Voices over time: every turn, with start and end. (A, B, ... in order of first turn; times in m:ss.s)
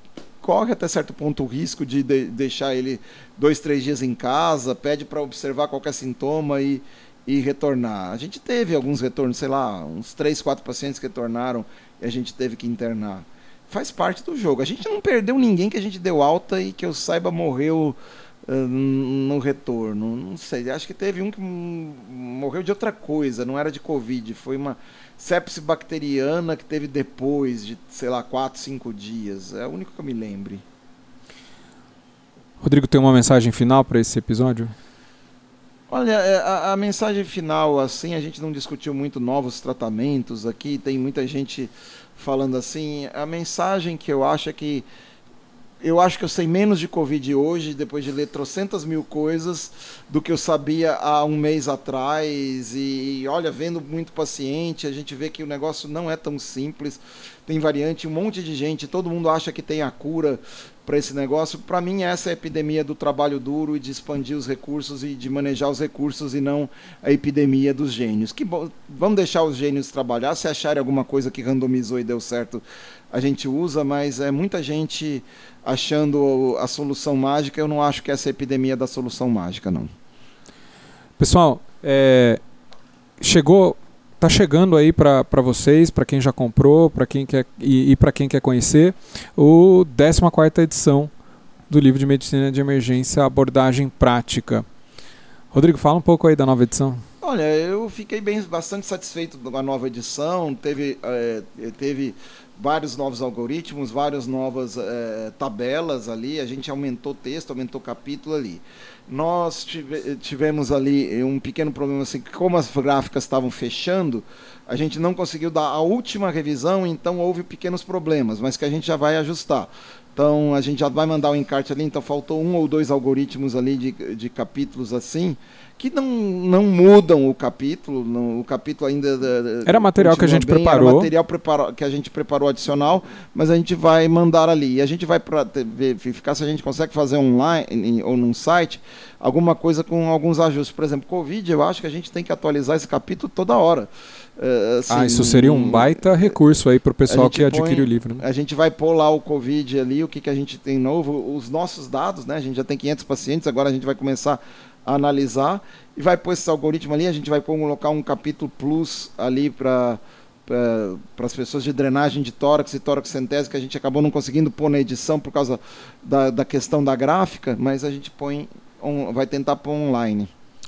0:00.4-0:30.6 A
0:32.6-0:34.7 B
0:35.9-0:44.9 A
0:45.8-1:19.9 A
1:21.2-1:22.4 B
1:23.2-1:31.1 B
1:31.7-1:34.7 B
1:35.5-1:37.0 B
1:37.2-2:26.3 A
2:09.7-2:11.1 B
2:24.9-2:28.2 B
2:27.1-2:50.3 A